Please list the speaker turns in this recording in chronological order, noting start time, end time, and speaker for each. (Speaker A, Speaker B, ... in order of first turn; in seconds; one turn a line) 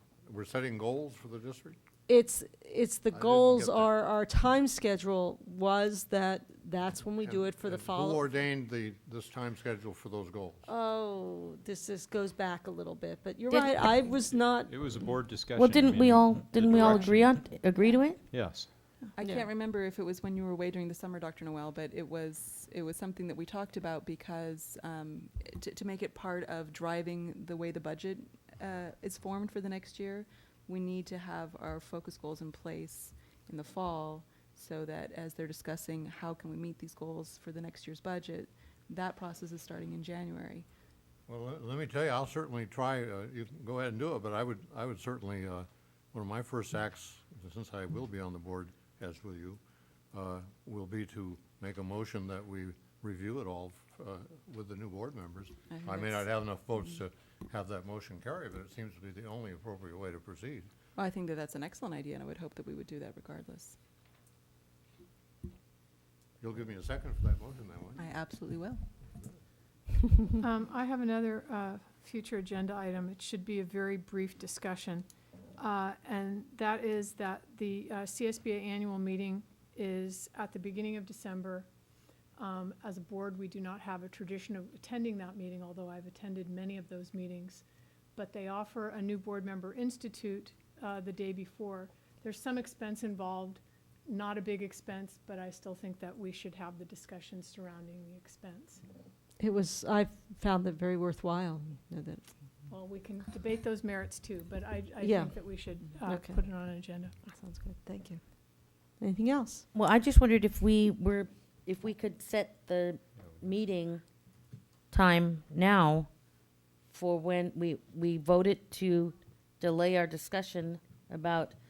Speaker A: 0.2-1.8
Speaker B: 2.1-8.2
Speaker A: 3.1-3.9
Speaker A: 7.2-10.7
Speaker B: 10.7-14.8
Speaker C: 14.3-17.3
Speaker D: 15.5-18.2
Speaker C: 18.3-18.7
Speaker E: 19.0-40.6
Speaker B: 19.2-19.4
Speaker A: 41.3-49.6
Speaker A: 50.1-60.7
Speaker E: 55.7-56.3
Speaker E: 61.0-63.8
Speaker A: 66.4-68.1
Speaker E: 68.0-68.8
Speaker F: 70.4-81.7
Speaker F: 82.4-87.6
Speaker F: 88.2-98.8
Speaker B: 99.4-102.3
Speaker F: 102.7-107.2
Speaker B: 105.0-105.5
Speaker B: 106.0-106.4
Speaker B: 107.2-108.2
Speaker B: 109.0-109.7
Speaker D: 109.7-114.0
Speaker D: 114.9-116.1
Speaker D: 116.9-121.5